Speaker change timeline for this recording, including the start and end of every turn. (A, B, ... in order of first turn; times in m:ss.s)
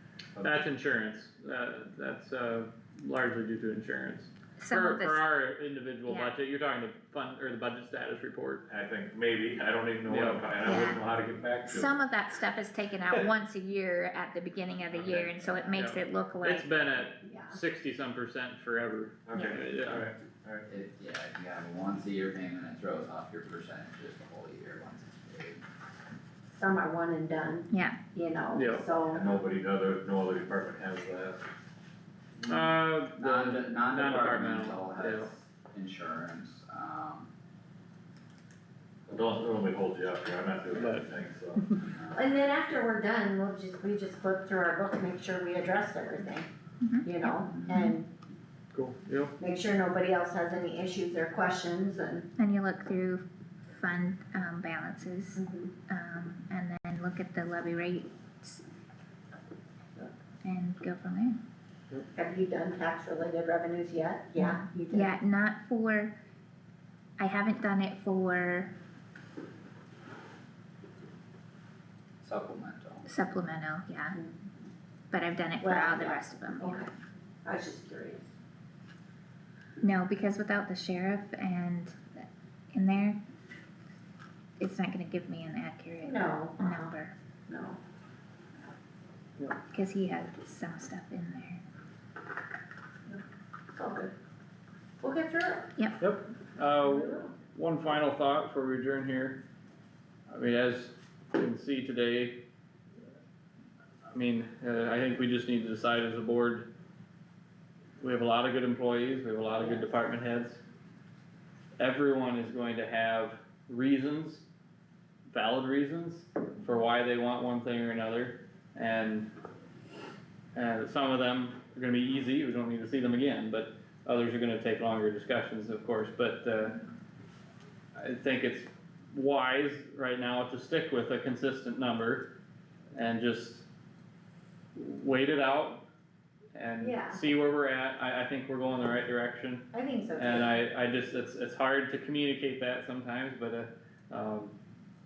0:00.4-0:08.6 A
0:04.6-0:05.2 B
0:06.1-0:06.4 B
0:08.7-0:12.0 C
0:10.1-0:10.5 A
0:10.6-0:11.0 B
0:11.7-0:16.7 B
0:14.9-0:20.1 A
0:17.2-0:17.6 D
0:19.3-0:20.7 C
0:19.3-0:19.6 B
0:20.7-0:25.6 E
0:26.5-0:29.2 D
0:27.7-0:28.0 B
0:28.5-0:28.9 A
0:29.1-0:31.4 C
0:32.5-0:35.3 A
0:33.2-0:37.3 E
0:39.1-0:41.6 C
0:40.8-0:41.6 A
0:41.9-0:42.4 E
0:42.1-0:46.5 D
0:46.8-0:48.0 B
0:47.0-0:48.1 D
0:48.7-0:49.3 A
0:49.4-0:52.3 D
0:52.4-0:58.6 B
0:55.4-0:55.7 D
1:00.4-1:01.4 B
1:02.1-1:05.2 D
1:04.4-1:06.1 B
1:07.2-1:08.7 B
1:12.2-1:13.0 E
1:13.0-1:14.2 B
1:15.1-1:16.9 B
1:15.6-1:16.9 D
1:17.4-1:18.3 D
1:19.8-1:23.2 B
1:24.6-1:27.1 B
1:26.0-1:26.9 D
1:27.5-1:27.8 D
1:29.7-1:31.6 B
1:33.7-1:34.1 D
1:35.0-1:35.7 D
1:36.0-1:39.4 A
1:36.8-1:37.3 D
1:40.3-1:42.4 A
1:44.1-1:46.7 A
1:48.0-1:50.6 A
1:49.6-1:49.9 D
1:51.8-1:54.4 A
1:55.3-1:59.3 A
2:00.6-2:06.8 A
2:08.0-2:12.3 A
2:12.9-2:13.6 A
2:14.8-2:15.8 A
2:16.5-2:24.5 A
2:16.8-2:17.2 D
2:19.7-2:20.6 D